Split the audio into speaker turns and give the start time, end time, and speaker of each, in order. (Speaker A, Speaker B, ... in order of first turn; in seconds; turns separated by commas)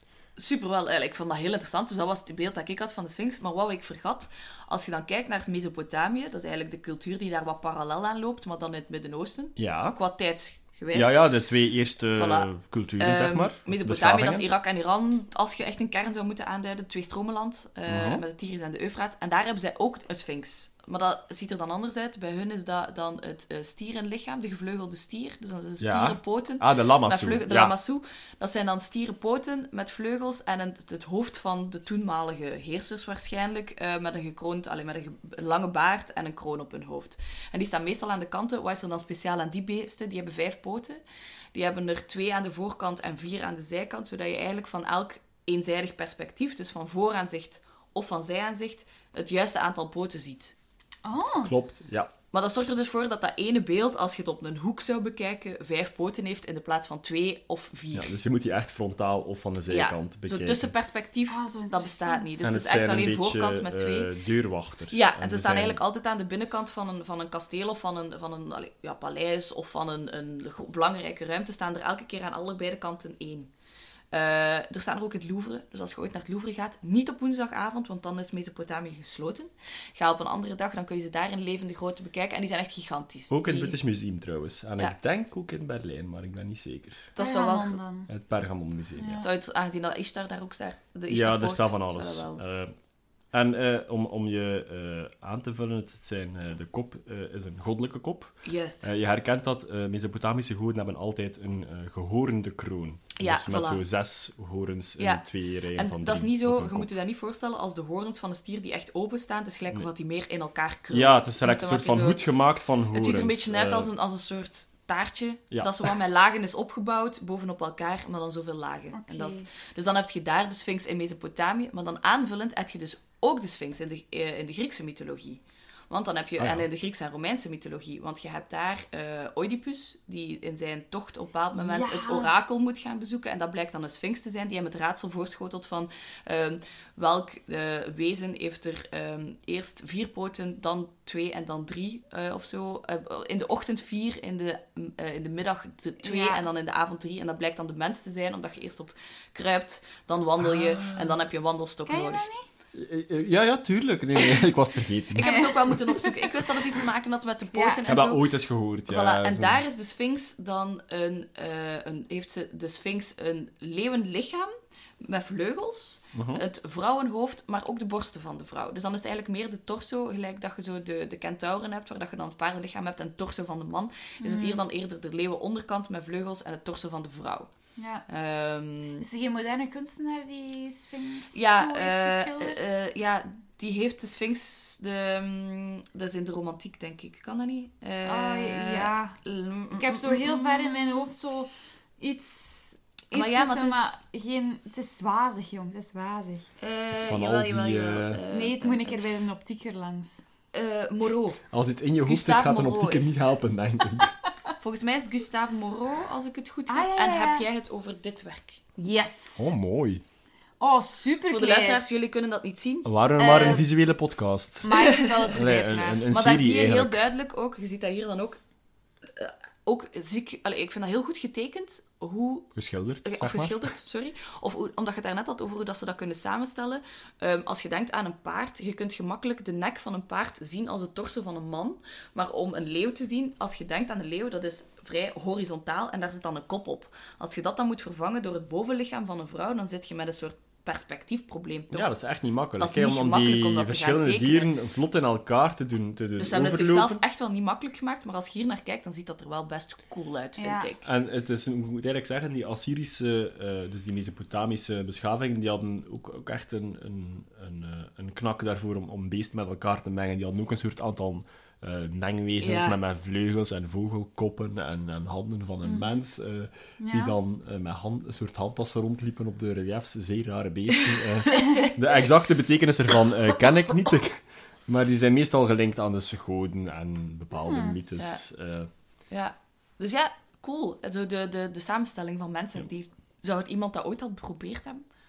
Speaker A: 0.4-11.2, Speaker B: 9.6-9.9, Speaker B: 10.9-14.5, Speaker A: 12.1-41.0, Speaker B: 17.9-18.2, Speaker B: 25.8-27.7, Speaker A: 41.5-50.5, Speaker C: 51.0-51.5, Speaker B: 51.4-52.1, Speaker A: 52.3-58.1, Speaker B: 57.9-60.7, Speaker A: 59.7-64.1, Speaker C: 61.3-62.3, Speaker B: 62.4-65.8, Speaker A: 64.9-73.5, Speaker A: 74.1-83.7, Speaker B: 83.3-87.1, Speaker A: 87.2-87.8, Speaker C: 87.2-88.1, Speaker B: 88.1-89.2, Speaker C: 89.0-89.2, Speaker A: 89.2-92.4, Speaker B: 91.1-92.7, Speaker B: 93.3-106.9, Speaker A: 98.4-98.9, Speaker A: 103.2-103.8, Speaker A: 105.7-112.2, Speaker B: 110.9-113.9, Speaker A: 112.9-152.3, Speaker B: 115.5-115.9, Speaker C: 118.9-119.5, Speaker B: 126.4-126.6, Speaker C: 131.6-132.3, Speaker C: 146.0-146.4, Speaker B: 150.4-151.2, Speaker C: 151.9-152.4, Speaker B: 152.7-155.3, Speaker A: 155.1-158.3, Speaker C: 155.2-156.3, Speaker C: 157.5-157.8, Speaker B: 157.8-159.6, Speaker A: 158.8-164.5, Speaker A: 165.0-177.5, Speaker B: 166.1-166.4, Speaker C: 174.2-174.6, Speaker C: 177.8-178.0, Speaker A: 178.1-179.0, Speaker C: 179.0-182.9, Speaker A: 181.3-191.1, Speaker C: 188.0-189.2, Speaker C: 189.7-196.5, Speaker A: 193.1-193.9, Speaker A: 196.6-199.0, Speaker B: 196.9-198.2, Speaker C: 198.3-200.2, Speaker A: 200.5-201.4, Speaker B: 201.5-204.1, Speaker A: 202.0-203.3, Speaker A: 204.6-208.6, Speaker C: 206.7-207.4, Speaker C: 208.8-209.5, Speaker B: 209.4-210.0, Speaker C: 210.6-211.8, Speaker A: 211.3-212.9, Speaker B: 212.8-217.0, Speaker C: 213.2-213.7, Speaker C: 214.6-216.1, Speaker A: 214.7-215.3, Speaker A: 216.1-218.4, Speaker A: 219.1-222.5, Speaker B: 222.5-223.7, Speaker A: 223.0-241.9, Speaker B: 241.7-247.0, Speaker A: 242.6-244.5, Speaker A: 246.2-250.9, Speaker C: 250.4-250.7, Speaker B: 250.8-278.7, Speaker A: 262.4-262.8, Speaker C: 265.6-266.0, Speaker C: 266.8-267.1, Speaker A: 271.2-271.7, Speaker C: 271.3-271.7, Speaker C: 277.4-277.8, Speaker A: 278.0-278.2, Speaker A: 279.1-284.8